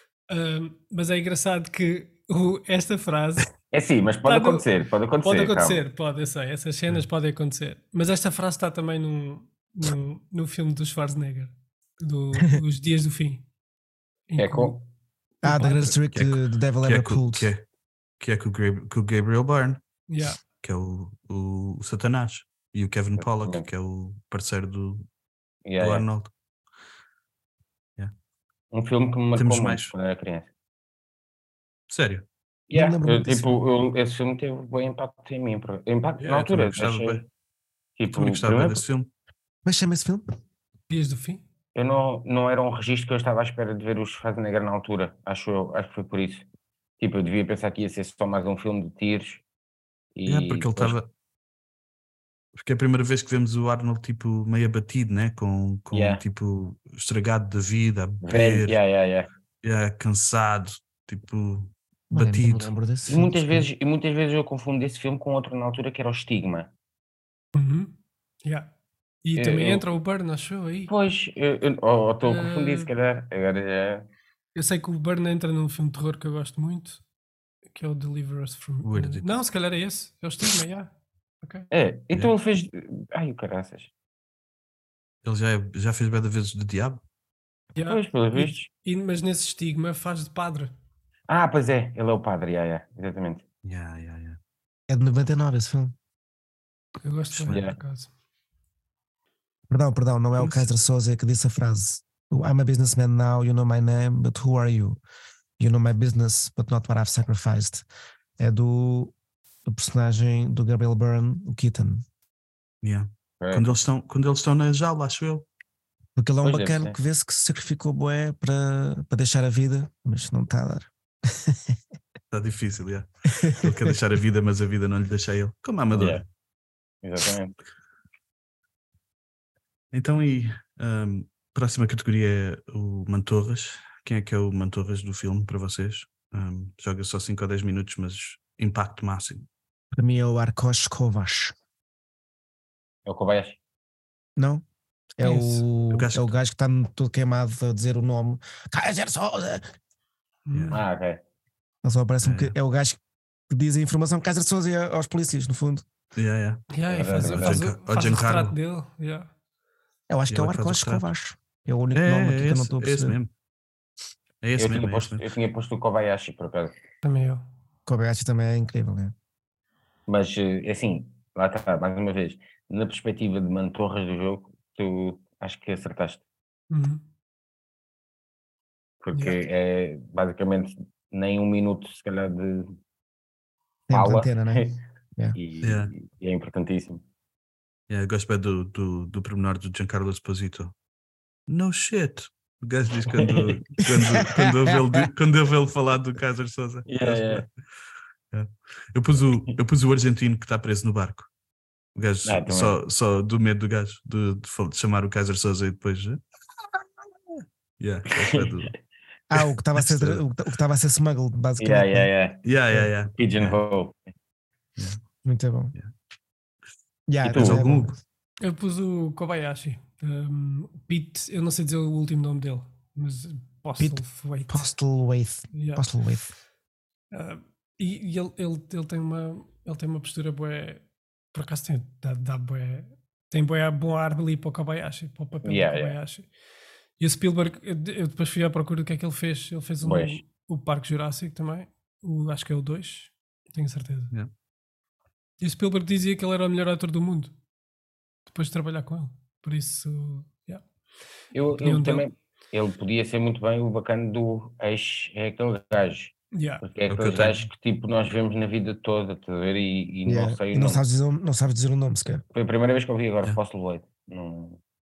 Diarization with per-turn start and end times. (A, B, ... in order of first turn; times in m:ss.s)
0:00.3-0:03.5 A
0:03.7-0:05.8 B
0:04.2-0:04.7 A
0:05.2-0:13.4 A
0:14.3-0:14.8 A
0:14.4-0:14.8 B
0:15.4-0:17.5 C
0:15.4-0:16.0 A
0:16.1-0:17.6 D
0:18.2-0:19.8 D
0:20.1-0:20.4 A
0:20.6-0:25.1 D
0:23.2-0:23.7 B
0:25.6-0:26.1 B
0:25.8-0:26.3 D
0:28.7-0:30.5 B
0:29.4-0:29.9 D
0:31.9-0:32.3 D
0:32.7-0:37.2 B
0:32.7-0:33.5 C
0:36.2-0:37.3 D
0:38.0-0:38.8 B
0:38.1-0:39.1 D
0:39.6-0:40.3 C
0:40.9-0:41.4 A
0:41.8-0:46.5 B
0:47.0-0:49.4 B
0:50.2-0:51.0 B
0:50.3-0:51.1 D
0:52.6-0:58.8 D
0:55.9-0:56.2 B
0:58.2-0:59.3 B
0:59.6-1:02.7 D
1:02.1-1:03.7 C
1:03.1-1:06.7 B
1:07.6-1:07.9 A
1:08.4-1:08.7 A
1:09.2-1:10.9 A
1:09.4-1:09.8 B
1:10.9-1:14.1 B
1:12.2-1:12.9 A
1:14.6-1:17.0 A
1:17.7-1:20.9 A
1:18.8-1:19.4 D
1:21.4-1:21.7 A
1:21.7-1:23.9 B
1:25.2-1:27.0 D
1:27.8-1:30.7 A
1:27.9-1:28.7 B
1:31.3-1:33.4 B
1:33.6-1:34.4 D
1:34.9-1:36.0 C
1:37.0-1:38.1 A
1:37.3-1:37.7 D
1:37.5-1:37.8 B
1:39.7-1:45.0 C
1:45.6-1:47.8 C
1:48.4-1:49.1 C
1:49.6-1:52.0 C
1:52.8-1:55.5 D
1:53.4-1:53.7 B
1:56.2-2:01.8 C
1:56.4-1:57.0 B
2:02.3-2:06.3 D
2:03.4-2:04.0 C
2:05.9-2:06.2 B
2:07.0-2:07.6 B
2:09.9-2:19.5 D
2:19.9-2:21.6 C
2:23.1-2:23.6 B
2:24.4-2:24.6 C
2:25.2-2:29.7 C
2:25.2-2:25.6 A
2:25.9-2:26.4 D
2:30.5-2:30.8 A
2:30.5-2:30.8 D
2:30.7-2:31.2 B
2:31.8-2:35.9 C
2:32.2-2:32.6 D
2:36.2-2:36.7 D
2:36.7-2:39.3 A
2:36.9-2:37.6 B
2:37.2-2:38.6 D
2:40.1-2:43.2 C
2:40.3-2:41.1 D
2:41.9-2:43.3 D
2:44.4-2:45.3 D
2:44.6-2:46.7 B
2:47.0-2:47.4 A
2:47.9-2:49.1 C
2:50.1-2:56.2 B
2:56.7-2:57.0 A
2:59.0-3:02.7 B
2:59.1-2:59.4 A
3:03.9-3:05.4 C
3:03.9-3:04.8 B
3:05.4-3:07.0 B
3:05.6-3:05.9 D
3:07.9-3:10.7 D
3:11.5-3:17.5 D
3:13.2-3:13.6 B
3:16.9-3:17.4 B
3:18.3-3:21.3 D
3:19.3-3:19.6 B
3:22.0-3:26.2 D
3:22.2-3:22.8 B
3:27.8-3:28.7 D
3:29.3-3:32.1 C
3:29.7-3:30.2 D
3:31.6-3:32.4 B
3:32.4-3:33.6 D
3:33.1-3:34.0 B
3:35.2-3:35.8 C
3:37.1-3:38.0 C
3:37.2-3:37.7 B
3:37.3-3:37.9 D
3:38.4-3:44.7 A
3:43.8-3:46.3 C
3:45.5-3:45.8 A
3:47.1-3:56.3 A
3:55.4-3:56.0 B
3:57.0-4:04.1 A
3:59.8-4:00.2 B
4:05.4-4:07.3 A
4:08.3-4:10.6 A
4:11.3-4:20.8 B
4:11.6-4:12.0 A
4:16.3-4:16.6 A
4:16.9-4:17.5 D
4:20.1-4:22.2 C
4:22.3-4:24.6 B